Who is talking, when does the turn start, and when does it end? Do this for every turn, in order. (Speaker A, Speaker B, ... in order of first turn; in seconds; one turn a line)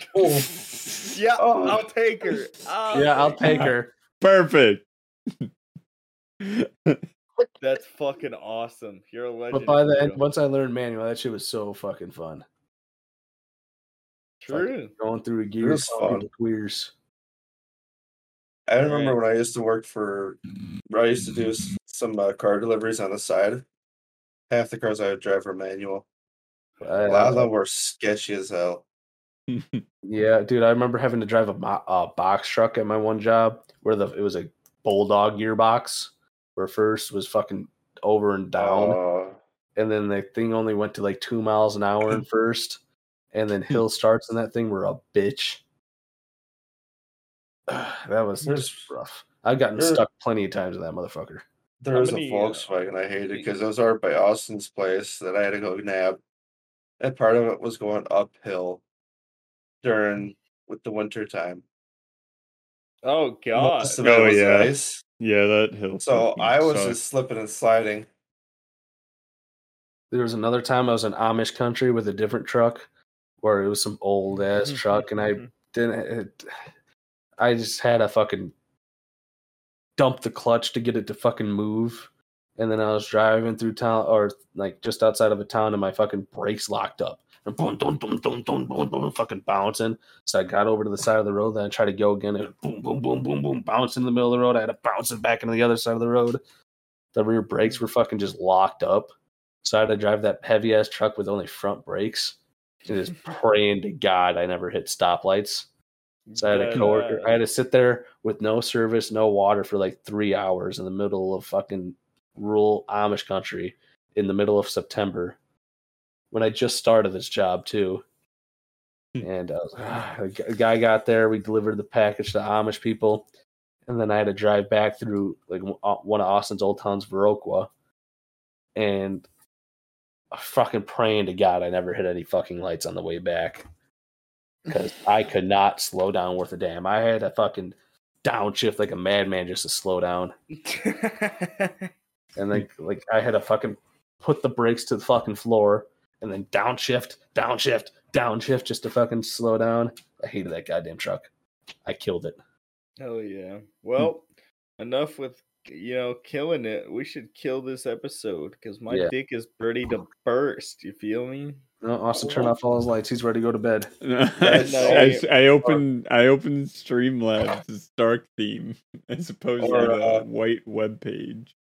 Speaker A: 0.1-0.5
Speaker B: 1.1-3.7
Speaker A: 1.4-1.9
Speaker C: 2.9-3.9
Speaker D: 3.4-4.8
Speaker D: 6.4-7.0
Speaker B: 7.6-10.2
Speaker C: 9.5-12.4
Speaker B: 14.4-14.9
Speaker C: 14.5-16.9
Speaker A: 15.6-16.2
Speaker A: 18.7-20.4
Speaker B: 18.8-19.2
Speaker A: 20.9-23.6
Speaker A: 24.5-26.1
Speaker C: 26.8-27.5
Speaker A: 27.0-28.8
Speaker D: 29.5-29.8
Speaker C: 30.0-39.0
Speaker A: 38.5-39.4
Speaker C: 39.8-42.8
Speaker C: 43.3-45.6
Speaker C: 47.7-51.4
Speaker A: 48.4-48.9
Speaker A: 49.8-50.0
Speaker A: 51.8-56.2
Speaker B: 51.9-52.8
Speaker A: 57.0-58.8
Speaker A: 59.8-61.6
Speaker B: 63.0-64.0
Speaker D: 63.6-67.0
Speaker A: 63.8-65.0
Speaker A: 66.0-68.1
Speaker C: 70.1-72.9
Speaker C: 73.4-76.5
Speaker B: 74.5-75.5
Speaker C: 77.4-78.5
Speaker C: 80.0-96.4
Speaker C: 97.1-99.1
Speaker C: 99.6-105.7
Speaker B: 106.3-107.4
Speaker C: 106.3-115.4
Speaker C: 116.3-118.0
Speaker C: 119.2-123.3
Speaker C: 123.8-127.7
Speaker C: 128.7-129.2
Speaker C: 130.3-133.6
Speaker C: 134.7-140.3
Speaker B: 140.6-141.9
Speaker C: 142.3-151.3
Speaker C: 151.8-152.4
Speaker B: 153.0-154.2
Speaker B: 154.8-161.6
Speaker C: 161.8-163.9
Speaker A: 162.2-162.5
Speaker D: 164.0-171.5
Speaker A: 164.4-165.1
Speaker B: 164.5-165.3
Speaker A: 169.6-170.2